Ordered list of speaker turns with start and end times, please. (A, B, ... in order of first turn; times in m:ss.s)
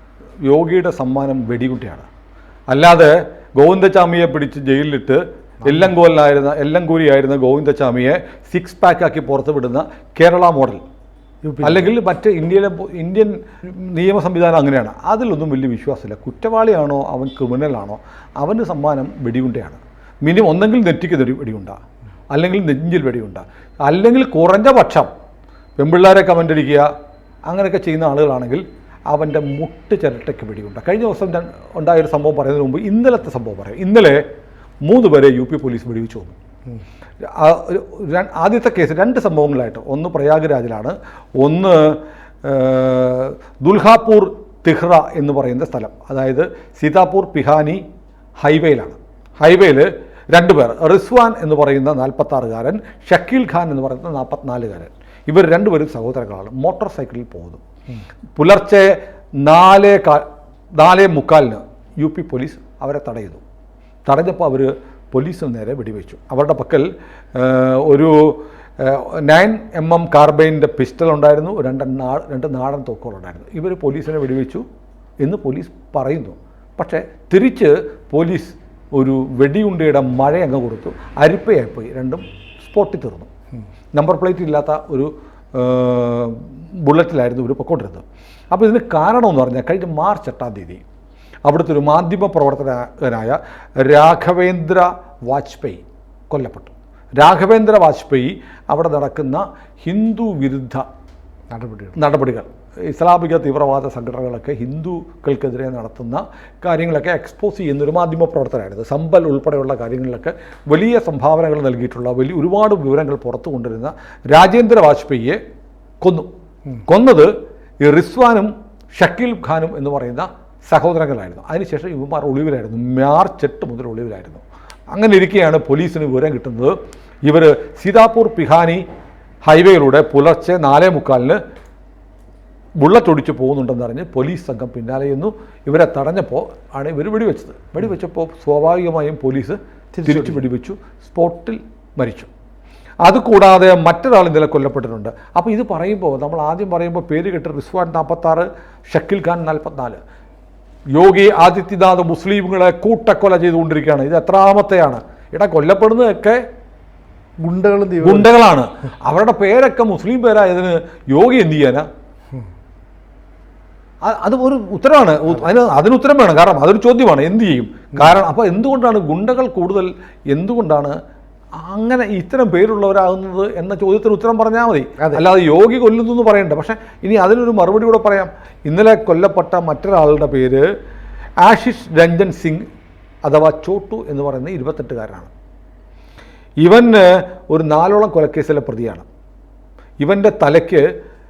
0:00.4-0:02.1 A
0:02.7-0:10.8 A
0:05.6-0:05.9 B
0:11.4-0:11.9 B
0:11.6-0:21.8 A
0:22.3-0:25.1 A
0:25.8-0:26.9 A
0:27.5-0:34.2 A
0:34.8-0:36.4 A
0:37.2-0:47.8 A
0:48.4-0:57.6 A
0:58.4-1:03.4 A
1:04.0-1:14.6 A
1:15.2-1:23.3 A
1:24.0-1:30.8 A
1:31.4-1:40.8 A
1:41.5-1:42.0 B
1:42.0-1:55.4 A
1:56.0-1:56.3 A
1:56.8-2:08.8 A
2:09.4-2:11.4 A
2:12.8-2:22.3 A
2:19.9-2:20.4 B
2:23.0-2:30.0 A
2:30.9-2:36.4 A
2:37.4-2:38.3 B
2:38.0-2:41.9 A
2:44.0-2:51.0 A
2:51.6-3:00.6 A
3:01.4-3:02.6 A
3:03.2-3:05.3 A
3:06.6-3:09.0 A
3:10.0-3:10.9 A